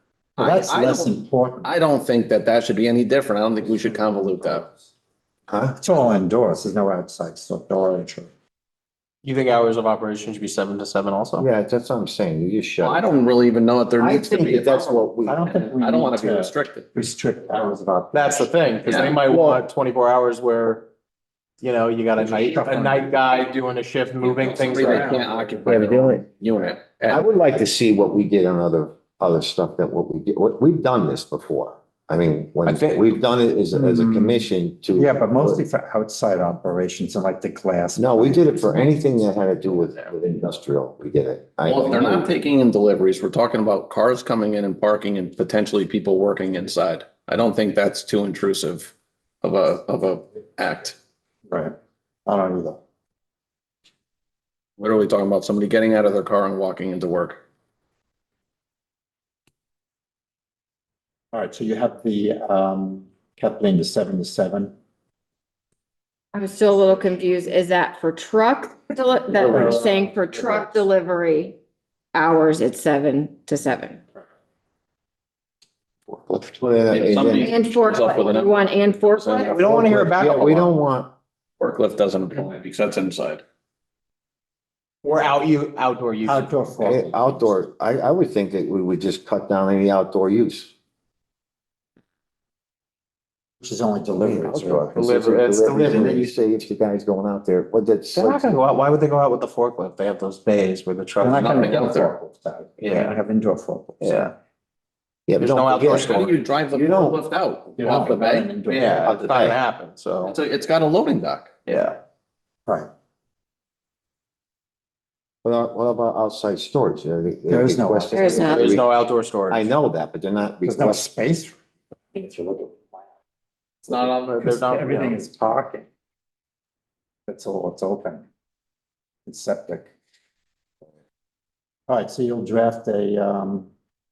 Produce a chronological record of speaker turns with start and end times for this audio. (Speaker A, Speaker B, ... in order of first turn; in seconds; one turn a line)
Speaker A: 0.4-4.7
Speaker B: 0.4-1.7
Speaker B: 4.0-4.7
Speaker C: 5.5-5.8
Speaker B: 5.8-8.3
Speaker D: 9.2-11.4
Speaker C: 11.4-13.2
Speaker A: 12.8-15.0
Speaker C: 14.0-15.5
Speaker B: 15.2-18.5
Speaker A: 15.5-16.9
Speaker D: 18.1-20.9
Speaker A: 18.8-19.3
Speaker D: 21.6-26.2
Speaker B: 22.2-23.2
Speaker A: 24.2-27.2
Speaker C: 25.6-26.2
Speaker C: 27.1-35.6
Speaker D: 32.6-33.1
Speaker B: 33.7-38.8
Speaker C: 38.0-42.3
Speaker A: 41.6-51.0
Speaker B: 51.5-51.7
Speaker B: 52.2-52.8
Speaker A: 54.8-57.4
Speaker B: 61.3-64.7
Speaker E: 66.3-71.6
Speaker B: 69.5-70.1
Speaker E: 72.1-74.0
Speaker C: 76.2-77.5
Speaker A: 76.9-79.5
Speaker E: 77.2-79.7
Speaker D: 79.4-80.7
Speaker C: 79.5-81.1
Speaker A: 81.6-83.4
Speaker D: 85.0-86.5
Speaker B: 86.2-87.5
Speaker C: 86.8-90.7
Speaker B: 93.6-94.9
Speaker C: 94.2-98.6
Speaker D: 94.9-96.3
Speaker D: 98.1-101.4
Speaker B: 101.2-104.3
Speaker A: 101.3-102.2
Speaker D: 102.8-103.1
Speaker D: 104.0-104.3
Speaker C: 105.3-106.2
Speaker D: 105.4-106.4
Speaker A: 106.0-108.7
Speaker C: 106.8-107.2
Speaker B: 107.7-109.2
Speaker D: 108.7-110.3
Speaker C: 109.0-109.6
Speaker A: 110.2-111.5
Speaker D: 111.7-112.0
Speaker C: 115.4-118.9
Speaker B: 117.5-118.5
Speaker E: 118.1-118.7
Speaker D: 118.4-119.7
Speaker C: 119.5-121.0
Speaker B: 120.6-121.5
Speaker B: 122.1-123.0
Speaker B: 123.8-125.8
Speaker D: 123.9-125.2
Speaker B: 127.3-128.2
Speaker B: 129.2-129.9
Speaker B: 131.9-133.7